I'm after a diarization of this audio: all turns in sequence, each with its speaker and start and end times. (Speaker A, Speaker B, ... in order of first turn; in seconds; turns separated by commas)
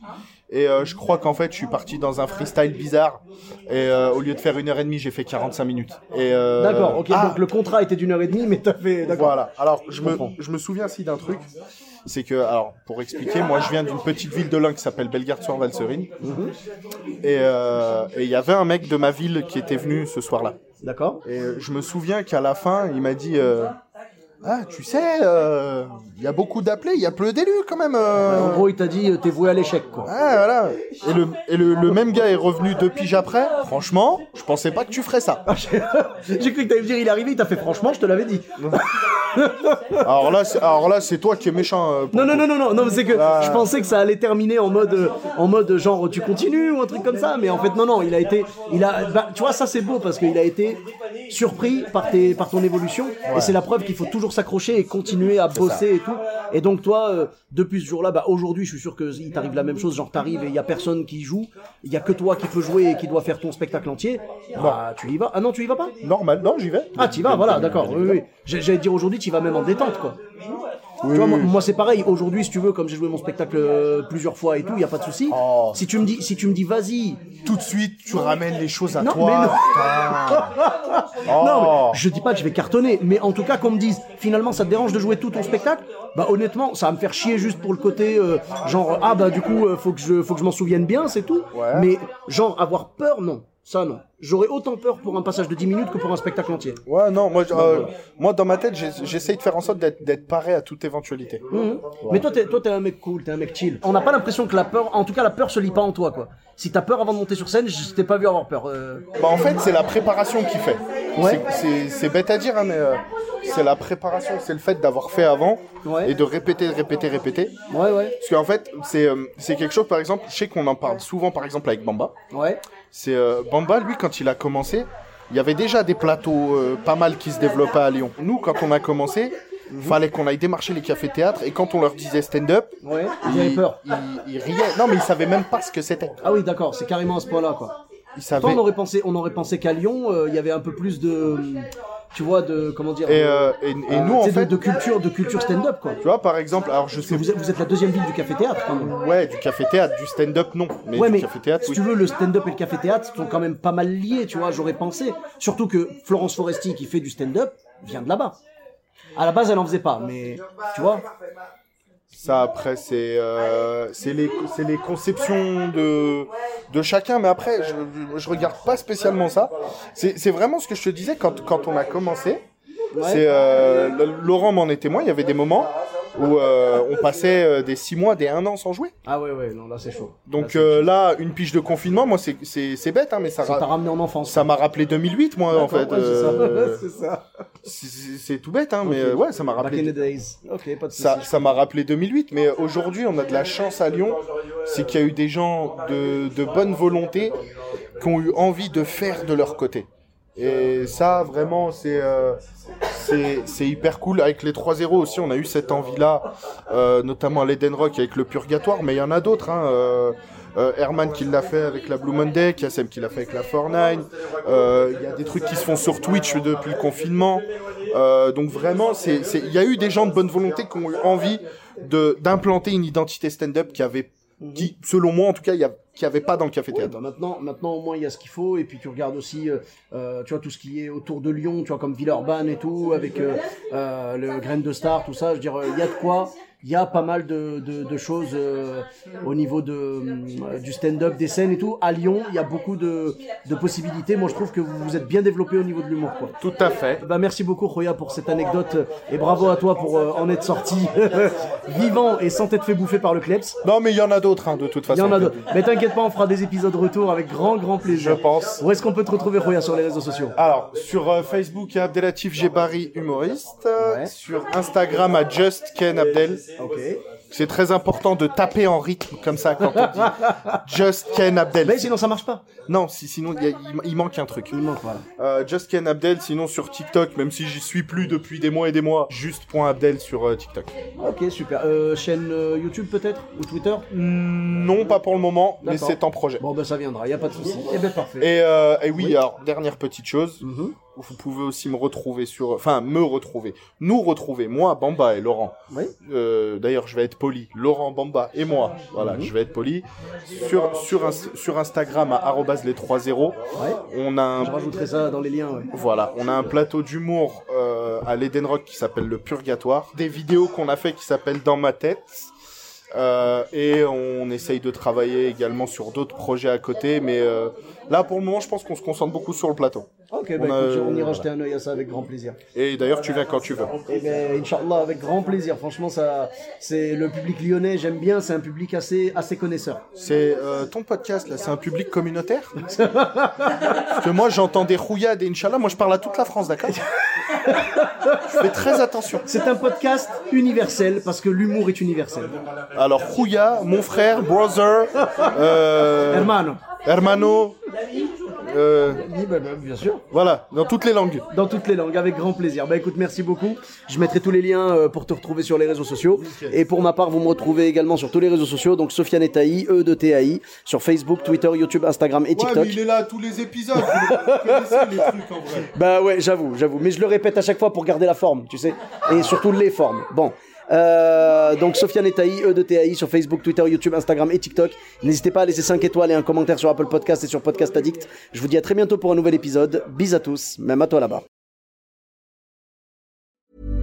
Speaker A: 0.5-7.4, Speaker B: 6.6-9.4, Speaker A: 9.1-11.5, Speaker B: 10.0-10.3, Speaker A: 12.0-16.1, Speaker B: 16.2-16.5, Speaker A: 17.2-20.6, Speaker B: 20.8-21.2, Speaker A: 21.2-23.8, Speaker A: 24.4-28.7, Speaker B: 28.2-30.1, Speaker A: 30.0-35.4, Speaker B: 35.5-40.0, Speaker A: 38.5-38.8, Speaker A: 40.0-42.5, Speaker B: 42.1-65.9, Speaker A: 43.1-43.7, Speaker A: 53.3-53.6, Speaker A: 55.5-55.8, Speaker A: 66.0-68.2, Speaker B: 67.0-70.2, Speaker A: 71.0-71.5, Speaker B: 71.1-77.2, Speaker A: 75.3-75.8, Speaker A: 77.4-80.5, Speaker B: 79.0-96.8, Speaker A: 81.2-82.0, Speaker A: 91.5-91.9, Speaker A: 96.8-101.4, Speaker B: 97.5-97.9, Speaker B: 101.5-109.1, Speaker A: 102.0-102.3, Speaker A: 109.2-117.5, Speaker B: 111.1-111.4, Speaker B: 115.8-116.1, Speaker B: 117.7-118.2, Speaker A: 118.2-122.1, Speaker B: 122.3-122.6, Speaker A: 122.9-136.2, Speaker B: 129.7-130.0, Speaker B: 132.8-133.8, Speaker B: 136.2-137.7, Speaker A: 138.2-138.6, Speaker B: 138.4-146.0, Speaker A: 143.0-144.6, Speaker A: 146.0-147.3, Speaker B: 147.1-148.9, Speaker A: 148.8-151.8, Speaker B: 150.9-158.4, Speaker B: 159.1-161.1, Speaker A: 162.1-172.4, Speaker B: 172.9-173.2, Speaker A: 173.0-178.9, Speaker B: 179.0-180.9, Speaker A: 180.3-183.7, Speaker B: 183.4-184.5, Speaker A: 184.3-186.8, Speaker B: 185.5-187.2, Speaker A: 187.6-189.9, Speaker B: 188.8-191.6, Speaker A: 190.9-197.4, Speaker A: 198.0-226.9, Speaker B: 224.4-224.7, Speaker B: 226.7-246.3, Speaker A: 246.4-247.0, Speaker B: 247.0-253.6, Speaker A: 253.6-255.4, Speaker B: 254.9-260.4, Speaker A: 257.9-258.6, Speaker A: 260.3-266.4, Speaker B: 263.8-264.1, Speaker B: 266.6-267.0, Speaker A: 267.3-271.9, Speaker B: 269.7-270.6, Speaker B: 271.6-272.4, Speaker A: 272.6-274.6, Speaker B: 274.5-275.0, Speaker A: 275.2-280.7, Speaker B: 281.0-283.9, Speaker A: 283.9-286.4, Speaker B: 285.6-288.3, Speaker A: 288.2-290.4, Speaker B: 290.4-290.8, Speaker A: 290.9-304.6, Speaker B: 298.9-299.3, Speaker B: 304.4-305.7, Speaker A: 305.7-312.3, Speaker A: 312.9-321.3, Speaker B: 320.1-322.4, Speaker A: 322.5-323.8, Speaker B: 323.9-329.8, Speaker A: 330.0-332.6, Speaker B: 332.8-333.8, Speaker A: 333.9-336.8, Speaker B: 337.4-338.2, Speaker A: 338.3-339.2, Speaker B: 339.2-342.4, Speaker A: 342.7-347.6, Speaker B: 346.0-346.6, Speaker A: 348.4-349.0, Speaker B: 348.9-350.0, Speaker A: 350.1-351.2, Speaker B: 351.3-362.8, Speaker A: 356.2-356.6, Speaker A: 362.4-365.7, Speaker B: 363.8-365.1, Speaker B: 365.7-381.2